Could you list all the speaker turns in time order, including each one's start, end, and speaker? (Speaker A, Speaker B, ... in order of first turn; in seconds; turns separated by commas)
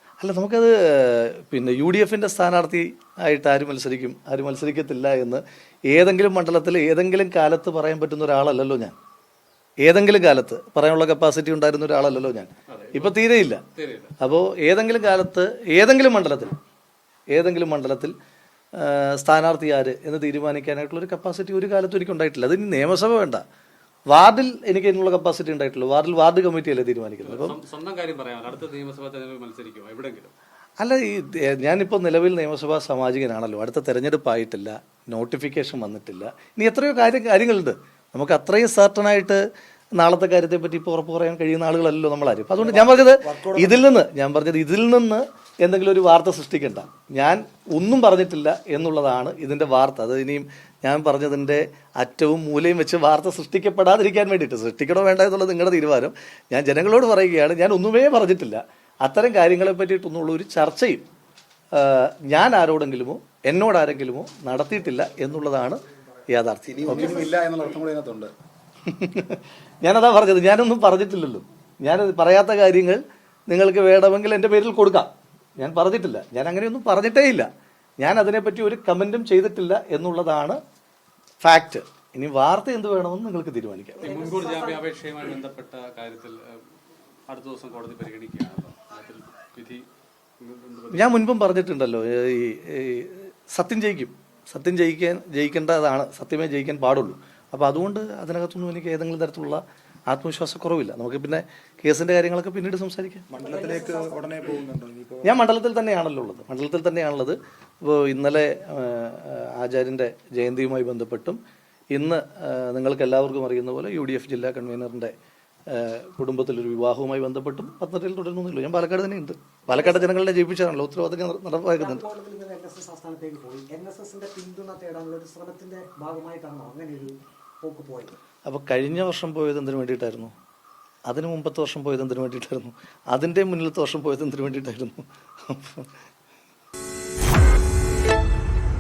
Speaker A: 0.2-8.9, Speaker A: 9.8-13.6, Speaker B: 12.7-14.1, Speaker A: 14.2-16.5, Speaker A: 17.3-18.1, Speaker A: 18.8-23.4, Speaker A: 24.1-27.6, Speaker B: 27.2-30.3, Speaker A: 30.8-39.4, Speaker A: 40.0-61.1, Speaker C: 42.6-43.8, Speaker A: 61.7-67.3, Speaker C: 66.7-68.3, Speaker A: 68.9-77.5, Speaker A: 78.0-80.6, Speaker A: 81.4-84.1, Speaker B: 84.0-86.6, Speaker D: 84.0-84.8, Speaker B: 87.3-89.9, Speaker B: 90.4-91.2, Speaker A: 90.9-103.2, Speaker C: 103.3-105.3, Speaker D: 103.4-104.5, Speaker A: 105.2-111.4, Speaker A: 111.9-115.1, Speaker A: 115.7-122.0, Speaker D: 119.7-120.1, Speaker D: 121.8-128.1, Speaker A: 128.5-130.3, Speaker A: 131.1-135.9